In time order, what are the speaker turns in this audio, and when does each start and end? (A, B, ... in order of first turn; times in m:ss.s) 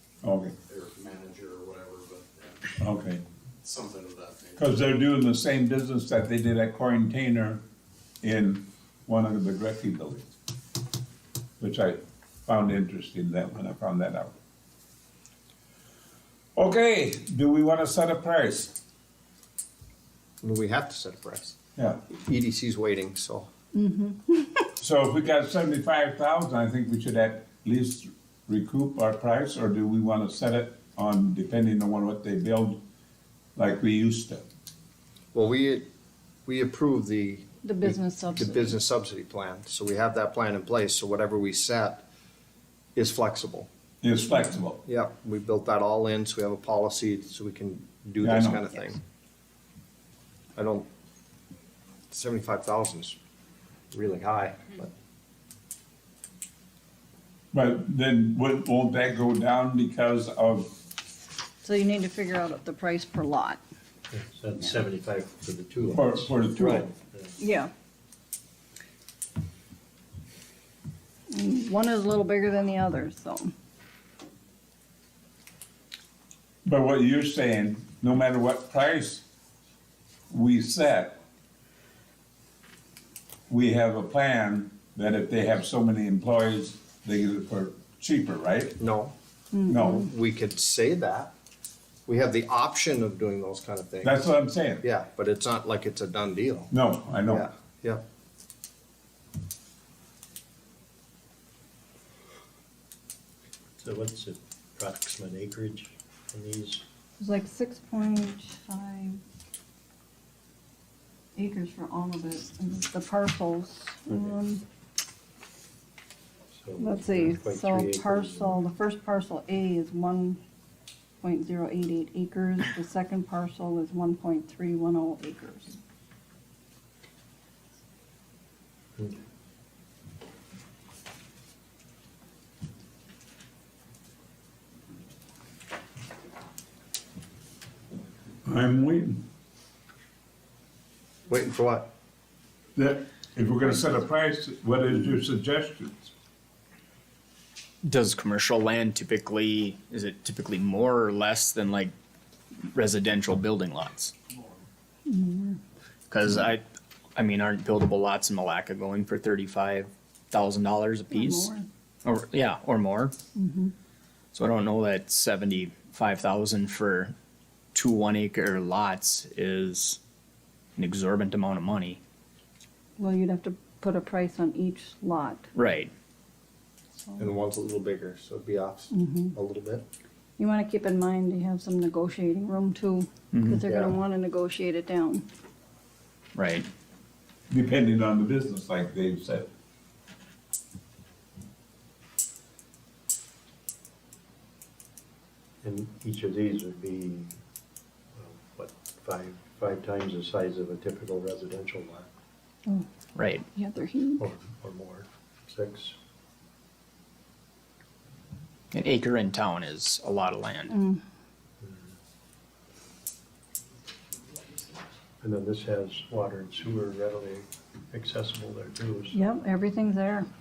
0:00.2-0:00.6 A
0:00.6-0:02.7 B
0:02.8-0:03.2 A
0:03.6-0:04.8 B
0:04.6-0:07.6 A
0:08.2-0:10.3 A
0:11.6-0:14.4 A
0:16.6-0:18.8 A
0:20.4-0:21.6 C
0:21.8-0:22.0 A
0:22.1-0:23.5 C
0:23.7-0:24.6 D
0:24.8-0:32.8 A
0:33.6-0:34.4 A
0:35.3-0:35.9 C
0:36.4-0:37.5 C
0:37.6-0:38.8 D
0:38.4-0:42.0 C
0:42.9-0:43.7 C
0:44.0-0:44.8 A
0:44.8-0:49.0 C
0:48.2-0:48.6 A
0:50.6-0:50.8 C
0:52.1-0:53.2 C
0:53.9-0:54.9 C
0:57.5-1:00.8 A
1:01.6-1:03.6 D
1:04.1-1:07.3 E
1:05.9-1:06.9 A
1:06.6-1:06.9 C
1:07.4-1:07.7 D
1:11.3-1:13.5 D
1:16.6-1:19.2 A
1:20.3-1:21.2 A
1:23.5-1:28.8 A
1:28.8-1:29.1 C
1:29.5-1:30.0 D
1:29.7-1:31.3 C
1:32.0-1:34.3 C
1:34.0-1:34.8 A
1:34.8-1:36.7 C
1:36.7-1:37.4 A
1:37.3-1:38.0 C
1:43.8-1:46.8 E
1:47.2-1:49.2 D
1:51.4-1:54.6 D
1:56.5-1:58.6 E
1:56.8-2:00.4 D
2:01.2-2:05.8 D
2:18.4-2:19.3 A
2:21.3-2:21.9 C
2:22.8-2:26.1 A
2:27.8-2:31.9 F
2:32.7-2:34.1 F
2:35.1-2:35.6 D
2:36.1-2:36.6 F
2:37.2-2:41.5 F
2:41.1-2:41.6 D
2:42.0-2:43.1 F
2:43.3-2:43.7 D
2:44.3-2:47.1 F
2:47.7-2:50.0 F
2:50.8-2:52.0 F
2:53.0-2:55.5 D
2:55.5-2:55.9 F
2:57.2-2:59.8 C
2:58.9-2:59.4 D
3:00.4-3:05.2 D
3:03.3-3:03.6 F
3:03.6-3:03.9 C
3:06.3-3:06.7 F
3:07.5-3:09.5 A
3:15.6-3:17.4 E
3:18.1-3:22.1 E
3:23.1-3:23.4 F
3:23.5-3:24.2 D
3:24.2-3:26.0 E
3:28.7-3:30.7 F
3:30.7-3:31.0 D
3:31.6-3:31.9 E
3:35.2-3:39.2 E
3:39.1-3:40.3 D